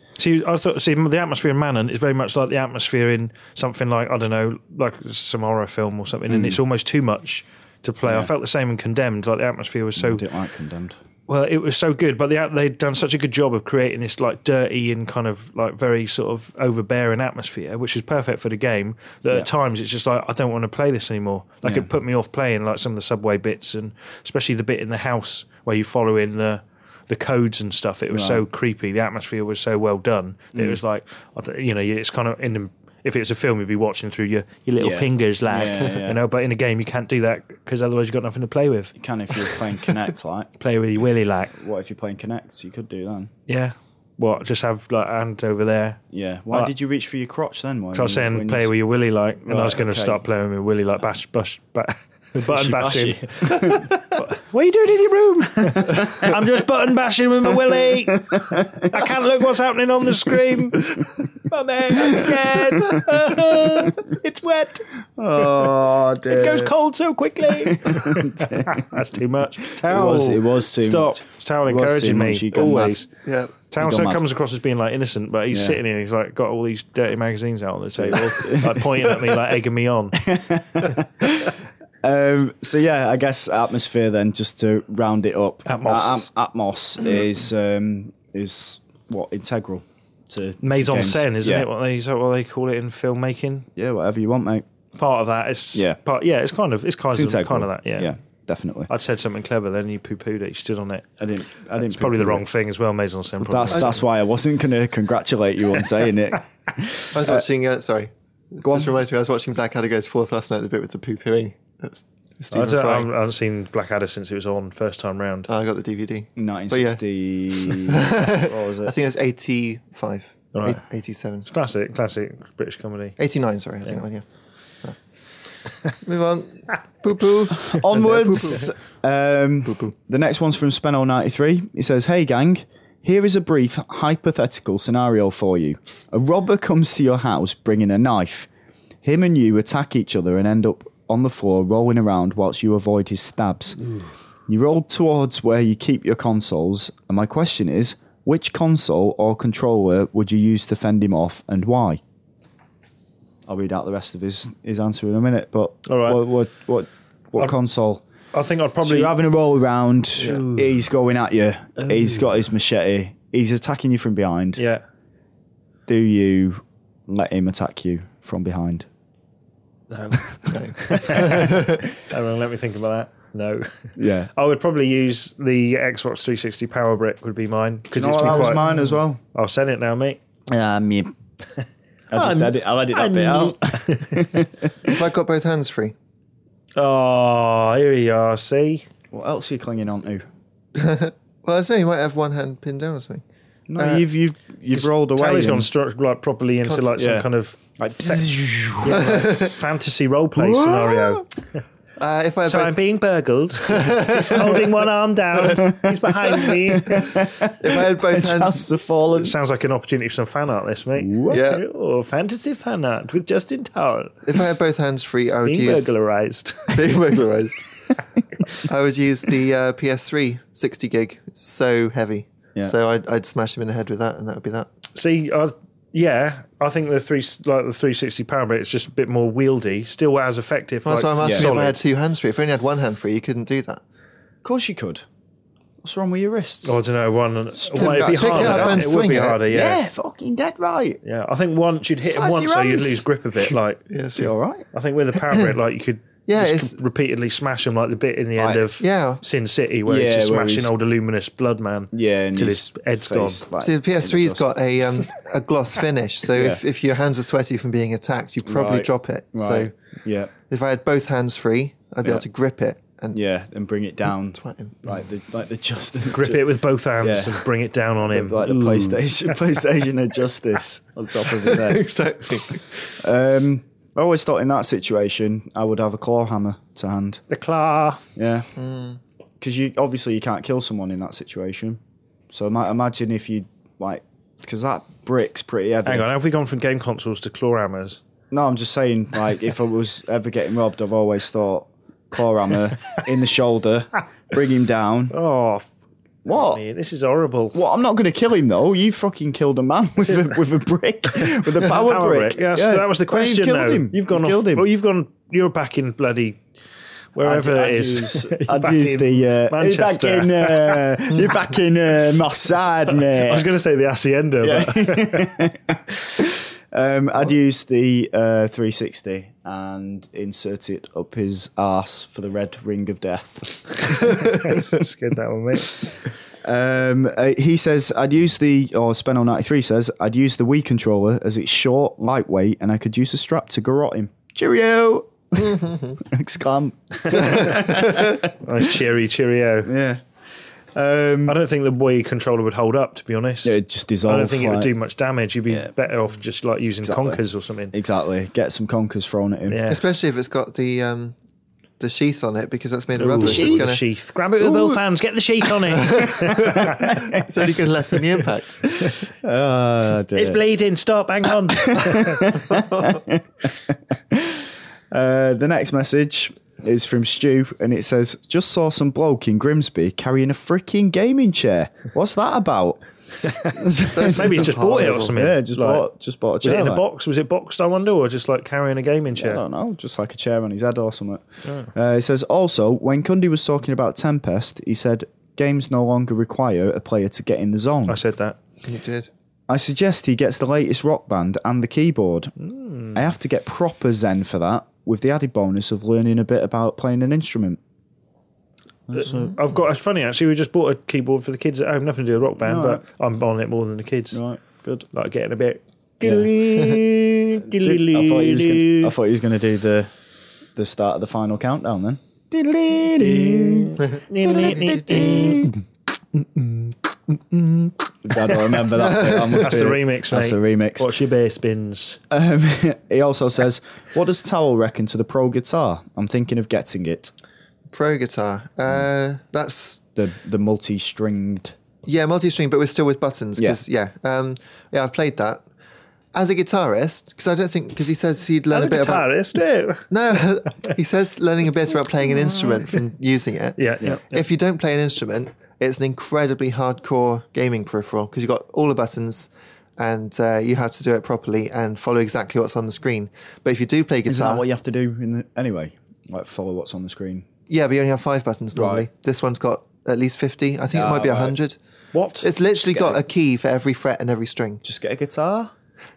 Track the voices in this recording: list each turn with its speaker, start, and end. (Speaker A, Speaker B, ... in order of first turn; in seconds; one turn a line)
Speaker A: 0.2-10.2
Speaker B: 6.3-6.6
Speaker B: 8.1-8.3
Speaker B: 10.0-11.0
Speaker A: 11.3-38.9
Speaker B: 28.1-28.4
Speaker B: 30.5-30.8
Speaker B: 34.8-36.2
Speaker B: 39.0-40.5
Speaker A: 40.6-41.6
Speaker B: 41.5-43.3
Speaker A: 43.5-46.7
Speaker B: 46.1-48.7
Speaker A: 47.9-65.7
Speaker B: 49.5-50.2
Speaker B: 52.4-54.0
Speaker B: 55.9-56.3
Speaker B: 58.3-59.1
Speaker B: 62.1-63.0
Speaker B: 65.2-66.7
Speaker A: 66.3-73.1
Speaker B: 67.6-69.0
Speaker B: 69.8-73.0
Speaker C: 73.2-73.5
Speaker A: 73.7-80.3
Speaker B: 73.8-74.2
Speaker B: 75.5-75.8
Speaker B: 78.0-79.2
Speaker B: 80.2-91.7
Speaker A: 85.7-86.3
Speaker A: 90.6-93.7
Speaker B: 93.8-94.7
Speaker A: 95.0-98.1
Speaker B: 97.1-98.9
Speaker A: 98.9-101.1
Speaker B: 101.2-102.5
Speaker A: 101.8-104.0
Speaker B: 103.4-107.5
Speaker C: 107.1-113.1
Speaker B: 108.6-108.9
Speaker A: 112.5-115.5
Speaker C: 115.5-117.0
Speaker B: 116.4-118.9
Speaker C: 117.5-121.5
Speaker A: 120.5-120.8
Speaker A: 121.5-123.2
Speaker C: 123.2-124.2
Speaker C: 126.0-128.7
Speaker B: 127.7-138.5
Speaker C: 129.7-129.9
Speaker B: 139.0-143.9
Speaker B: 144.5-152.0
Speaker B: 153.5-158.0
Speaker A: 155.9-156.2
Speaker A: 158.3-159.2
Speaker B: 158.8-164.6
Speaker A: 160.3-160.6
Speaker A: 164.6-164.8
Speaker B: 165.9-168.9
Speaker A: 169.9-178.6
Speaker C: 170.5-171.7
Speaker B: 174.0-174.3
Speaker B: 177.9-179.2
Speaker C: 178.2-179.0
Speaker A: 179.3-180.2
Speaker B: 180.5-181.2
Speaker B: 182.1-185.0
Speaker A: 182.1-184.4
Speaker C: 184.8-185.9
Speaker A: 186.8-188.9
Speaker B: 189.1-190.3
Speaker C: 190.8-193.2
Speaker B: 193.7-195.7
Speaker C: 193.8-194.1
Speaker A: 194.7-201.3
Speaker B: 196.9-199.4
Speaker C: 198.9-199.6
Speaker B: 200.4-201.3
Speaker C: 202.0-202.8
Speaker A: 202.4-207.2
Speaker C: 203.7-204.7
Speaker B: 205.6-205.9
Speaker B: 206.7-209.3
Speaker C: 207.5-208.6
Speaker A: 209.2-214.2
Speaker B: 211.0-211.4
Speaker C: 211.3-211.6
Speaker C: 214.2-215.9
Speaker A: 215.4-216.9
Speaker C: 216.7-217.7
Speaker C: 218.6-224.7
Speaker A: 224.9-231.8
Speaker C: 230.8-233.8
Speaker B: 231.2-231.5
Speaker B: 234.4-235.1
Speaker B: 235.8-236.8
Speaker A: 236.6-239.8
Speaker B: 237.6-238.9
Speaker C: 237.8-239.4
Speaker B: 239.5-241.0
Speaker A: 241.0-243.8
Speaker B: 242.0-243.1
Speaker C: 243.9-244.3
Speaker B: 244.2-244.7
Speaker A: 244.7-253.4
Speaker C: 246.3-246.8
Speaker B: 248.4-248.6
Speaker C: 248.8-249.2
Speaker B: 249.9-250.7
Speaker B: 251.9-254.5
Speaker C: 253.6-259.7
Speaker B: 256.3-256.6
Speaker B: 258.4-260.3
Speaker C: 260.5-263.2
Speaker B: 263.1-266.4
Speaker C: 264.3-264.9
Speaker A: 266.1-269.4
Speaker B: 267.0-267.5
Speaker B: 268.1-271.9
Speaker C: 271.3-272.9
Speaker B: 273.0-277.2
Speaker A: 277.3-278.0
Speaker B: 278.2-278.5
Speaker C: 278.6-279.0
Speaker B: 279.4-281.8
Speaker B: 282.3-286.1
Speaker A: 285.9-288.0
Speaker B: 288.3-295.1
Speaker A: 295.1-295.7
Speaker B: 296.2-296.6
Speaker A: 296.3-297.6
Speaker B: 297.5-304.7
Speaker A: 300.1-300.3
Speaker A: 301.3-306.4
Speaker A: 307.1-311.0
Speaker B: 307.2-313.5
Speaker A: 313.1-315.4
Speaker B: 314.4-324.7
Speaker A: 323.9-325.9
Speaker B: 326.4-338.6
Speaker C: 335.6-336.0
Speaker A: 337.1-337.6
Speaker A: 338.4-339.7
Speaker B: 339.6-340.0
Speaker B: 340.7-341.4
Speaker A: 341.3-347.7
Speaker B: 343.4-344.7
Speaker B: 346.8-347.2
Speaker B: 347.7-349.6
Speaker A: 349.5-349.8
Speaker C: 349.7-351.1
Speaker C: 351.8-353.8
Speaker A: 353.0-356.9
Speaker B: 353.2-353.7
Speaker B: 354.4-354.8
Speaker C: 355.8-358.6
Speaker B: 356.1-357.2
Speaker B: 358.9-360.4
Speaker A: 360.1-362.4
Speaker B: 361.7-372.8
Speaker A: 373.3-373.6
Speaker B: 373.4-376.8
Speaker C: 373.9-375.2
Speaker A: 374.1-375.9
Speaker A: 376.4-379.4
Speaker B: 379.2-388.0
Speaker A: 381.4-381.7
Speaker A: 387.9-388.4
Speaker C: 388.6-389.1
Speaker B: 389.5-392.3
Speaker A: 392.4-393.0
Speaker B: 392.9-397.6
Speaker B: 398.9-399.4
Speaker A: 398.9-404.2
Speaker B: 402.4-402.8
Speaker B: 404.1-404.9
Speaker A: 404.9-408.9
Speaker B: 406.0-406.3
Speaker B: 407.4-409.9
Speaker B: 410.5-415.6
Speaker A: 413.0-415.5
Speaker A: 416.1-422.0
Speaker B: 418.0-420.9
Speaker C: 419.0-419.3
Speaker B: 422.1-427.1
Speaker C: 427.7-429.8
Speaker B: 430.0-431.6
Speaker C: 431.8-435.4
Speaker C: 436.1-439.1
Speaker A: 438.5-439.9
Speaker C: 439.9-454.4
Speaker A: 443.6-444.2
Speaker B: 454.1-457.3
Speaker C: 457.5-461.6
Speaker B: 458.6-458.9
Speaker B: 460.7-461.4
Speaker A: 461.9-462.3
Speaker C: 462.2-464.6
Speaker B: 462.6-463.0
Speaker B: 464.6-465.5